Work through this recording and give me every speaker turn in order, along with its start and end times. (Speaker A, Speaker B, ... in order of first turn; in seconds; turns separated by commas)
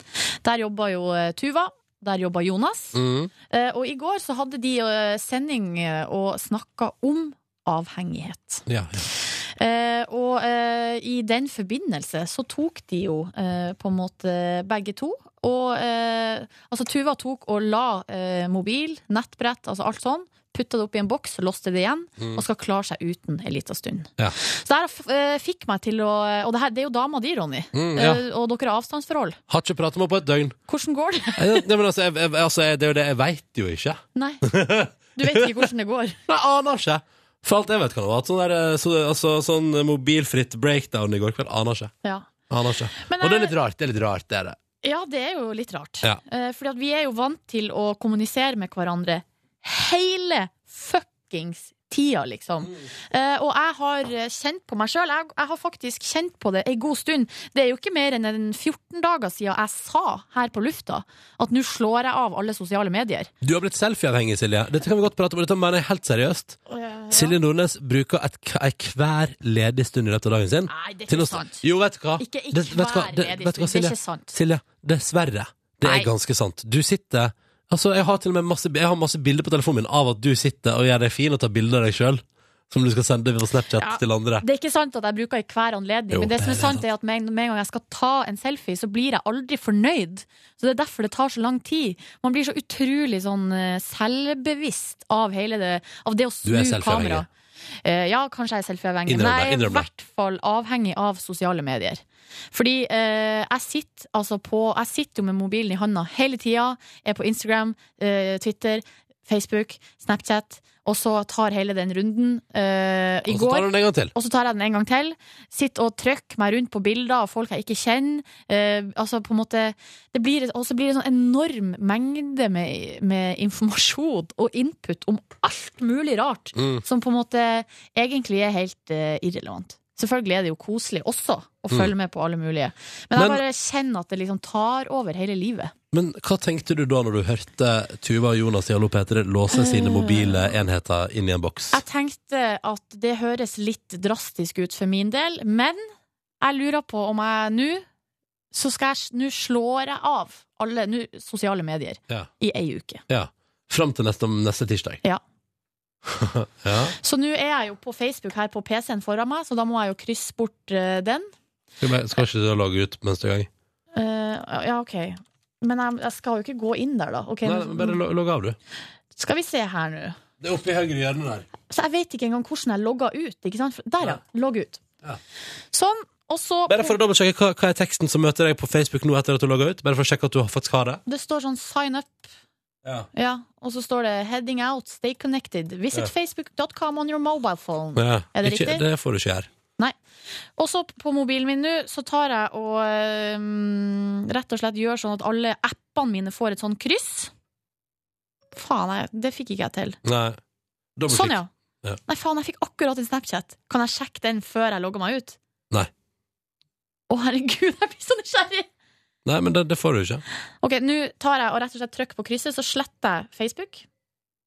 Speaker A: 0.4-3.0, Speaker B: 2.9-3.3, Speaker A: 3.5-29.4, Speaker B: 8.7-9.1, Speaker B: 27.7-28.2, Speaker B: 29.5-30.6, Speaker A: 30.7-31.6, Speaker B: 31.4-35.6, Speaker A: 34.1-34.4, Speaker A: 35.1-36.2, Speaker B: 36.3-41.9, Speaker A: 42.0-42.3, Speaker B: 42.5-44.6, Speaker A: 43.0-43.5, Speaker A: 44.8-63.3, Speaker B: 63.4-66.6, Speaker A: 66.7-67.4, Speaker B: 67.1-84.4, Speaker A: 70.7-71.6, Speaker A: 72.2-74.3, Speaker A: 75.8-76.1, Speaker A: 83.8-97.3, Speaker B: 86.1-86.8, Speaker B: 96.4-97.3, Speaker A: 97.8-135.7, Speaker B: 99.1-99.9, Speaker B: 113.3-114.1, Speaker B: 126.5-126.8, Speaker B: 133.1-133.4, Speaker B: 135.9-141.8, Speaker A: 139.5-140.6, Speaker A: 141.7-145.8, Speaker A: 146.4-147.8, Speaker A: 148.5-153.0, Speaker B: 153.1-155.0, Speaker B: 156.1-156.9, Speaker A: 157.0-161.3, Speaker B: 161.8-163.5, Speaker A: 163.9-168.0, Speaker B: 167.4-168.6, Speaker A: 169.1-170.2, Speaker B: 170.4-171.5, Speaker A: 171.7-174.8, Speaker A: 175.7-177.0, Speaker B: 176.7-181.0, Speaker A: 181.1-182.3, Speaker B: 182.8-183.1, Speaker A: 183.1-188.8, Speaker B: 187.9-189.5, Speaker A: 190.6-197.3, Speaker A: 198.5-200.0, Speaker B: 200.0-200.4, Speaker B: 201.0-202.0, Speaker A: 201.1-201.5, Speaker A: 202.1-205.4, Speaker A: 207.1-208.7, Speaker B: 209.2-210.2, Speaker A: 210.6-213.8